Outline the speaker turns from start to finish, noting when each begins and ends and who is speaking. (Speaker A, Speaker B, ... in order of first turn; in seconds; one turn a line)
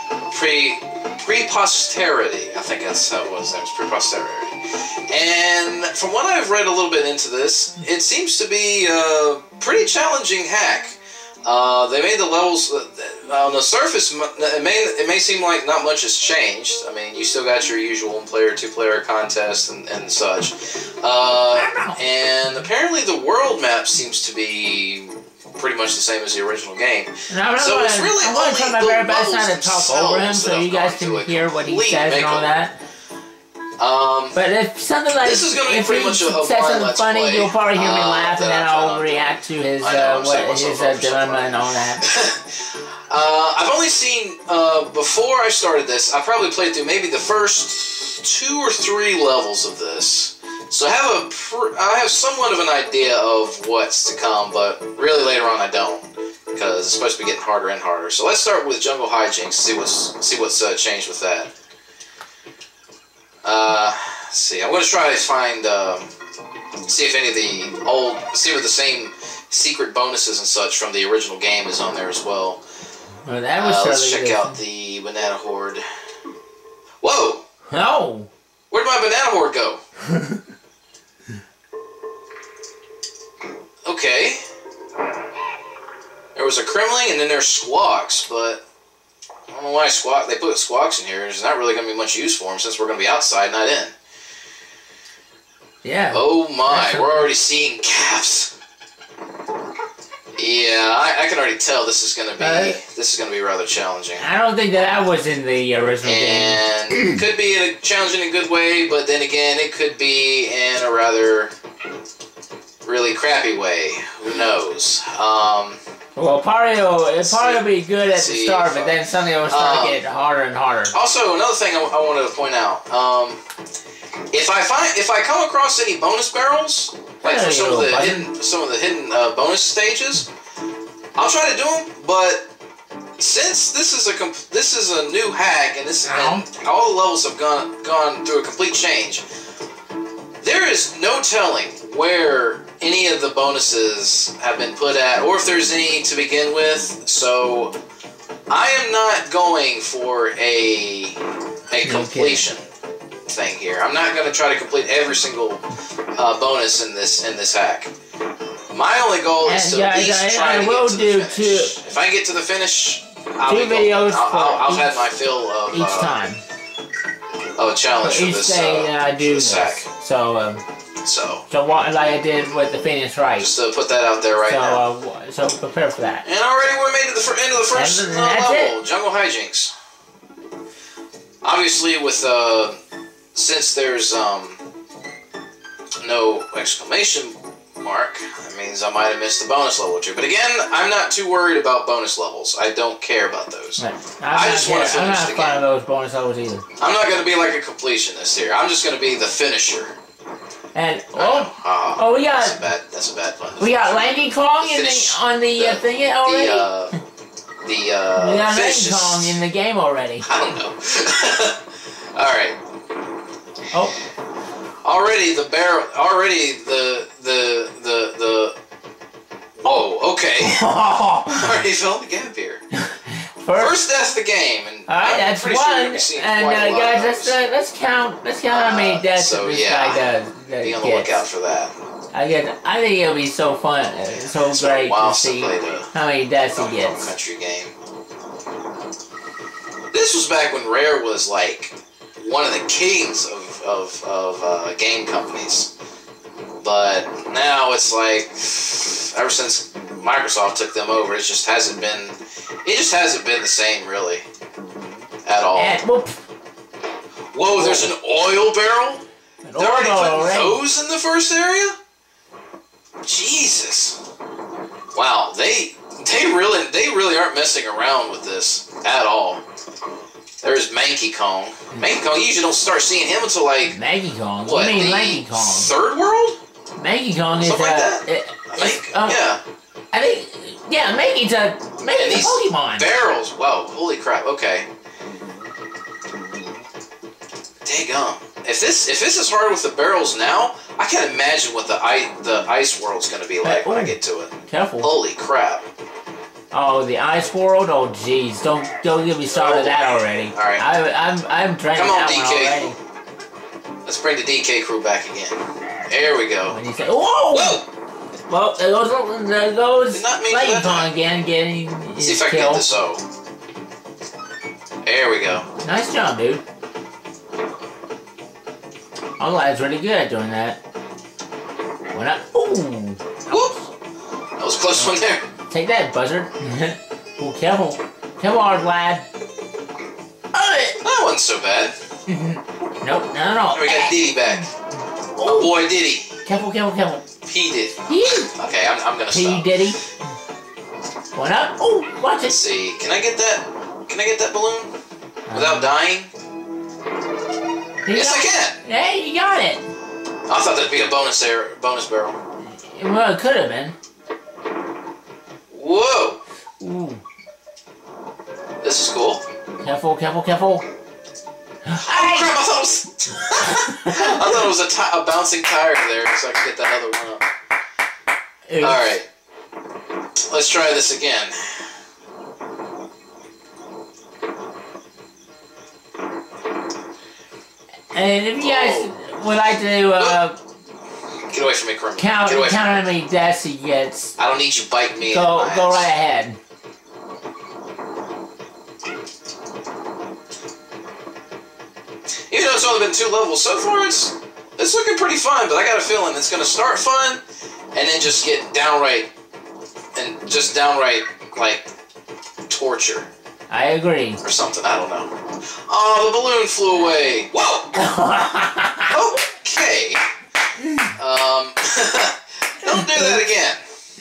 Speaker A: 0.2-32.5
Speaker B: 21.6-22.0
Speaker B: 27.3-32.8
Speaker A: 33.8-34.4
Speaker B: 34.3-42.1
Speaker A: 35.2-61.5
Speaker A: 63.4-66.1
Speaker A: 66.9-72.6
Speaker B: 73.2-74.6
Speaker A: 73.6-75.8
Speaker A: 77.0-77.4
Speaker B: 77.7-78.3
Speaker A: 78.7-79.8
Speaker B: 80.0-80.4
Speaker A: 83.8-84.4
Speaker A: 86.3-88.6
Speaker A: 89.5-93.9
Speaker B: 95.8-97.3
Speaker A: 96.1-98.5
Speaker A: 100.4-104.3
Speaker B: 102.4-102.8
Speaker B: 104.2-107.2
Speaker A: 106.0-111.5
Speaker A: 112.8-115.8
Speaker B: 116.2-121.0
Speaker A: 117.2-120.0
Speaker A: 120.9-123.4
Speaker A: 124.3-130.3
Speaker B: 127.2-128.3
Speaker A: 131.2-132.5
Speaker A: 133.2-139.2
Speaker B: 136.1-136.4
Speaker A: 140.4-147.7
Speaker A: 148.5-152.7
Speaker B: 151.8-152.5
Speaker A: 153.3-155.6
Speaker A: 156.2-157.9
Speaker A: 158.7-166.2
Speaker B: 159.4-161.8
Speaker B: 163.4-165.0
Speaker B: 165.7-166.4
Speaker A: 167.6-169.9
Speaker B: 168.0-170.6
Speaker A: 171.0-171.4
Speaker B: 171.5-173.5
Speaker A: 173.4-174.8
Speaker B: 174.4-176.2
Speaker A: 176.2-179.7
Speaker B: 177.7-178.8
Speaker A: 181.4-182.8
Speaker A: 183.3-184.6
Speaker A: 186.0-195.6
Speaker B: 193.8-196.7
Speaker A: 196.8-199.9
Speaker B: 200.8-202.6
Speaker A: 201.2-206.9
Speaker B: 203.6-206.7
Speaker A: 207.6-209.4
Speaker B: 208.2-210.3
Speaker A: 210.2-212.6
Speaker B: 213.7-214.0
Speaker A: 214.8-218.6
Speaker A: 219.6-220.7
Speaker B: 220.4-221.6
Speaker A: 221.3-222.6
Speaker B: 222.7-223.7
Speaker A: 223.6-227.4
Speaker B: 224.9-231.2
Speaker A: 228.5-230.1
Speaker A: 230.6-231.8
Speaker B: 232.1-237.1
Speaker A: 234.0-235.9
Speaker A: 236.5-237.7
Speaker A: 239.9-245.7
Speaker A: 246.6-254.3
Speaker A: 255.2-255.8
Speaker B: 255.6-256.2
Speaker A: 257.3-259.0
Speaker B: 257.6-257.9
Speaker B: 259.4-260.6
Speaker A: 259.6-261.8
Speaker A: 263.0-264.0
Speaker A: 264.9-269.4
Speaker A: 270.4-273.8
Speaker B: 273.7-275.7
Speaker A: 274.4-276.4
Speaker B: 276.8-279.2
Speaker A: 277.4-279.4
Speaker B: 279.9-282.9
Speaker A: 281.9-284.7
Speaker A: 287.6-295.7
Speaker B: 293.4-293.9
Speaker B: 294.5-294.9
Speaker B: 296.5-302.8
Speaker A: 299.3-300.6
Speaker A: 301.8-302.7
Speaker A: 303.9-305.4
Speaker A: 305.9-306.6
Speaker B: 306.5-307.6
Speaker A: 307.3-307.7
Speaker B: 308.3-312.7
Speaker A: 309.9-310.9
Speaker A: 312.0-313.0
Speaker A: 314.8-315.5
Speaker B: 315.6-316.4
Speaker B: 319.2-320.6
Speaker B: 321.9-323.7
Speaker A: 323.3-323.5
Speaker A: 324.4-325.2
Speaker B: 325.5-329.1
Speaker B: 330.3-330.8
Speaker A: 330.8-331.8
Speaker B: 332.1-334.0
Speaker A: 333.5-334.5
Speaker B: 335.1-335.5
Speaker A: 335.2-336.1
Speaker B: 336.2-337.0
Speaker A: 337.3-339.5
Speaker B: 337.9-338.3
Speaker B: 339.1-339.8
Speaker B: 341.1-342.4
Speaker A: 342.2-344.7
Speaker B: 345.3-345.7
Speaker A: 345.3-346.1
Speaker B: 347.9-349.7
Speaker A: 347.9-348.6
Speaker A: 350.3-352.2
Speaker B: 352.5-353.8
Speaker A: 355.5-356.2
Speaker B: 356.6-357.0
Speaker A: 358.6-359.2
Speaker B: 359.6-360.7
Speaker B: 361.7-362.3
Speaker A: 361.8-367.3
Speaker B: 363.2-364.4
Speaker B: 368.5-368.9
Speaker A: 368.6-369.1
Speaker A: 370.3-371.6
Speaker B: 377.9-380.4
Speaker A: 378.4-378.9
Speaker A: 381.3-382.8
Speaker B: 382.0-384.2
Speaker A: 384.2-385.9
Speaker B: 385.0-386.4
Speaker A: 392.3-397.2
Speaker A: 397.7-399.1
Speaker A: 399.9-401.7
Speaker A: 402.5-403.1
Speaker B: 403.5-404.2
Speaker A: 404.2-405.1
Speaker A: 405.7-407.7
Speaker B: 407.7-409.2
Speaker A: 408.9-410.0
Speaker B: 410.6-410.9
Speaker A: 411.0-413.6
Speaker B: 412.7-413.2